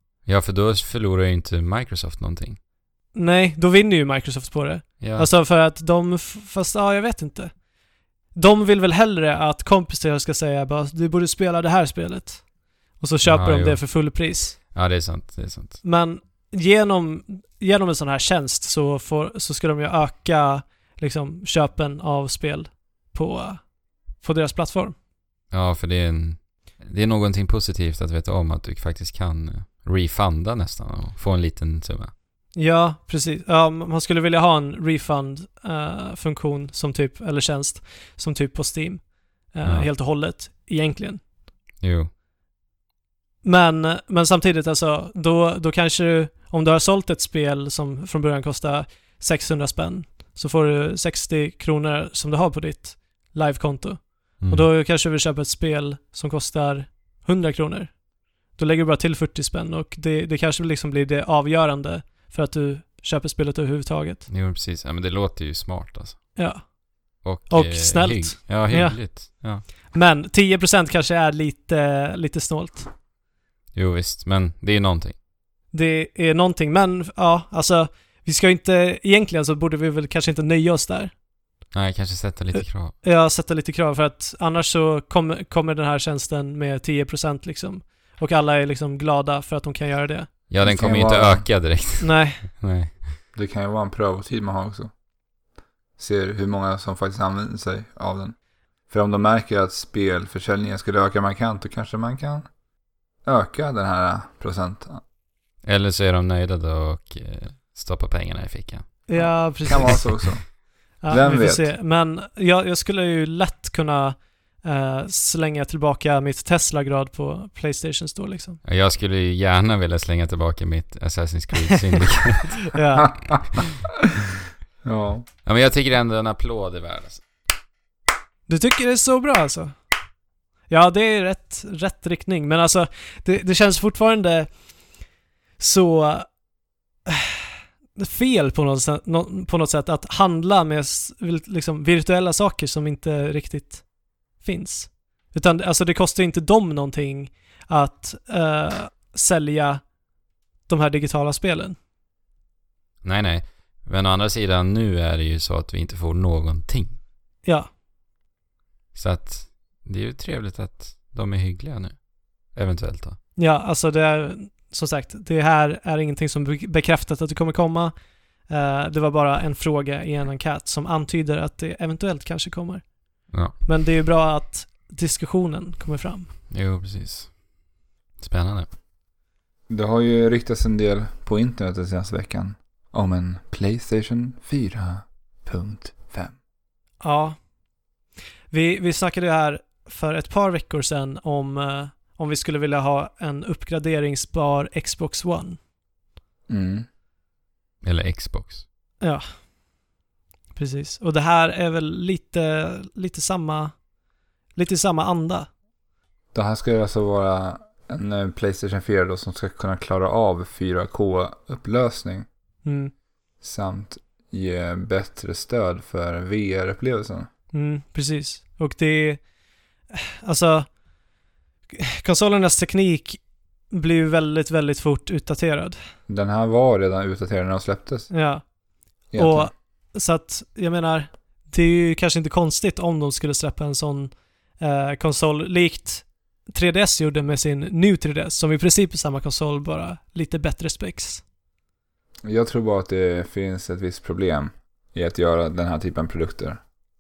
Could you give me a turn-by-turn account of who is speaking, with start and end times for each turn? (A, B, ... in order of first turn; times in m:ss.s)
0:00.3-0:02.6 A
0:03.1-0:07.5 B
0:05.0-0:05.3 A
0:08.3-0:12.5 B
0:13.0-0:14.6 B
0:13.2-0:14.0 A
0:14.7-0:15.8 A
0:15.8-0:25.0 B
0:25.5-0:32.1 A
0:32.6-0:41.2 B
0:39.6-0:39.9 A
0:41.8-0:42.1 A
0:43.4-0:58.0 B
0:54.4-0:54.7 A
0:58.5-1:04.2 B
1:04.3-1:06.4 A
1:06.4-1:12.9 B
1:07.2-1:09.7 A
1:13.7-1:15.2 A
1:15.7-1:21.1 B
1:21.7-1:23.0 A
1:22.6-1:30.3 B
1:30.5-1:33.2 A
1:30.6-1:31.5 C
1:32.0-1:32.4 B
1:33.3-1:34.9 C
1:36.0-1:38.4 C
1:38.9-1:42.5 C
1:43.2-1:45.0 C
1:45.6-1:49.0 A
1:49.1-1:50.2 B
1:49.2-1:51.7 C
1:51.0-1:58.6 B
1:58.6-2:02.7 A
2:02.7-2:03.1 B
2:03.0-2:03.4 C
2:04.8-2:05.3 C
2:05.4-2:07.2 A
2:08.5-2:09.7 B
2:10.7-2:14.5 B
2:15.6-2:16.3 B
2:17.1-2:17.3 B
2:18.0-2:29.8 B
2:30.7-2:31.8 B
2:33.0-2:37.0 A
2:37.4-2:37.7 B
2:38.9-2:43.2 A
2:43.4-2:47.9 B
2:48.5-2:52.9 B
2:53.5-2:56.3 B
2:56.5-2:57.4 A
2:58.2-2:58.7 A
2:59.7-3:06.4 C
3:07.0-3:07.4 B
3:08.5-3:15.6 B
3:16.5-3:16.8 C
3:17.8-3:18.6 A
3:20.6-3:23.8 B
3:24.5-3:25.5 B
3:26.3-3:32.3 C
3:32.6-3:32.9 B
3:33.4-3:37.3 C
3:37.5-3:39.2 B
3:39.9-3:40.7 B
3:41.8-3:45.8 B
3:46.1-3:48.1 C
3:48.1-3:48.4 B
3:49.1-3:49.5 C
3:49.2-4:01.2 B
4:02.2-4:06.6 C